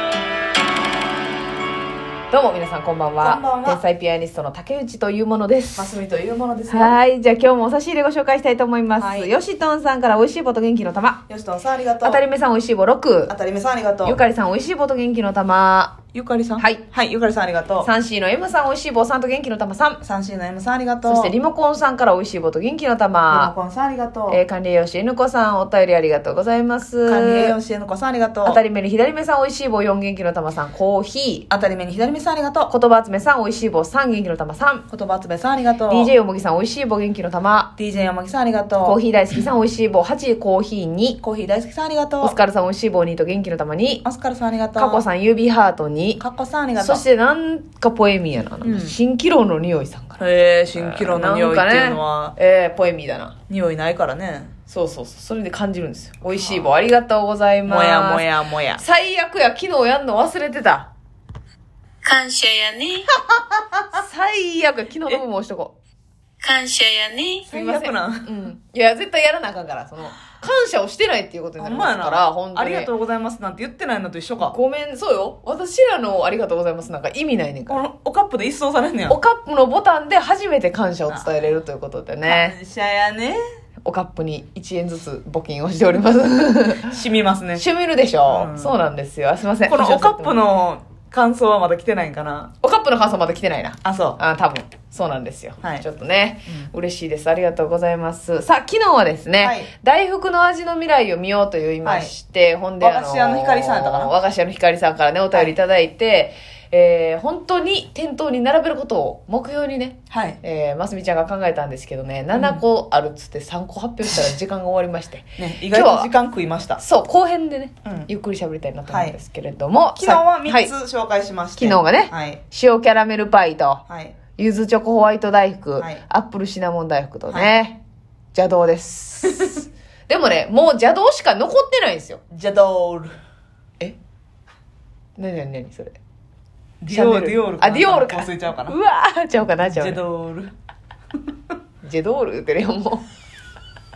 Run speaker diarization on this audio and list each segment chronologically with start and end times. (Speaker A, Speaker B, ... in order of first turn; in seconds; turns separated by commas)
Speaker A: 2.3-5.9, Speaker B: 3.2-3.8, Speaker B: 5.8-7.0, Speaker A: 6.7-11.2, Speaker B: 9.0-9.3, Speaker B: 11.3-12.2, Speaker A: 12.0-13.3, Speaker B: 13.3-14.2, Speaker A: 14.0-16.0, Speaker B: 16.1-17.9, Speaker A: 17.8-20.0, Speaker B: 20.0-21.3, Speaker A: 21.0-23.5, Speaker B: 23.3-24.4, Speaker A: 24.3-27.6, Speaker B: 27.1-28.6, Speaker A: 28.4-31.5, Speaker B: 31.5-32.7, Speaker A: 32.7-34.9, Speaker B: 34.9-36.1, Speaker A: 35.9-37.7, Speaker B: 37.8-39.0, Speaker A: 38.8-41.2, Speaker B: 41.2-42.4, Speaker A: 42.2-44.0, Speaker B: 44.0-45.1, Speaker A: 44.8-46.2, Speaker B: 46.2-47.0, Speaker A: 46.8-50.2, Speaker B: 48.6-49.0, Speaker B: 50.2-52.4, Speaker A: 50.7-53.3, Speaker B: 53.5-54.5, Speaker A: 54.7-58.2, Speaker B: 56.3-56.7, Speaker B: 57.6-58.8, Speaker A: 58.8-60.9, Speaker C: 62.0-63.0, Speaker B: 63.1-64.0, Speaker A: 63.9-65.7, Speaker C: 66.4-67.4, Speaker B: 67.5-68.3, Speaker A: 67.5-72.9, Speaker B: 71.6-74.5, Speaker A: 74.5-77.8, Speaker B: 77.7-79.2, Speaker A: 79.1-82.5, Speaker B: 81.1-81.3, Speaker B: 82.2-83.4, Speaker A: 83.8-87.0, Speaker B: 86.9-87.6, Speaker A: 87.5-90.4, Speaker B: 88.2-88.8, Speaker B: 89.7-92.5, Speaker A: 92.6-116.1, Speaker B: 93.8-94.2, Speaker B: 99.4-99.7, Speaker B: 101.8-102.1, Speaker B: 102.8-104.1, Speaker B: 110.1-110.4, Speaker B: 112.3-112.6, Speaker B: 115.4-116.8, Speaker A: 116.8-120.7, Speaker B: 117.8-118.1, Speaker B: 118.9-119.2, Speaker B: 120.0-122.4, Speaker A: 121.5-123.8, Speaker B: 123.9-124.2, Speaker A: 124.3-127.8, Speaker B: 127.3-127.5, Speaker A: 128.3-132.2, Speaker B: 132.3-133.1, Speaker A: 135.2-135.9, Speaker B: 136.8-138.8, Speaker A: 136.9-140.0, Speaker B: 139.6-140.5, Speaker A: 141.8-143.0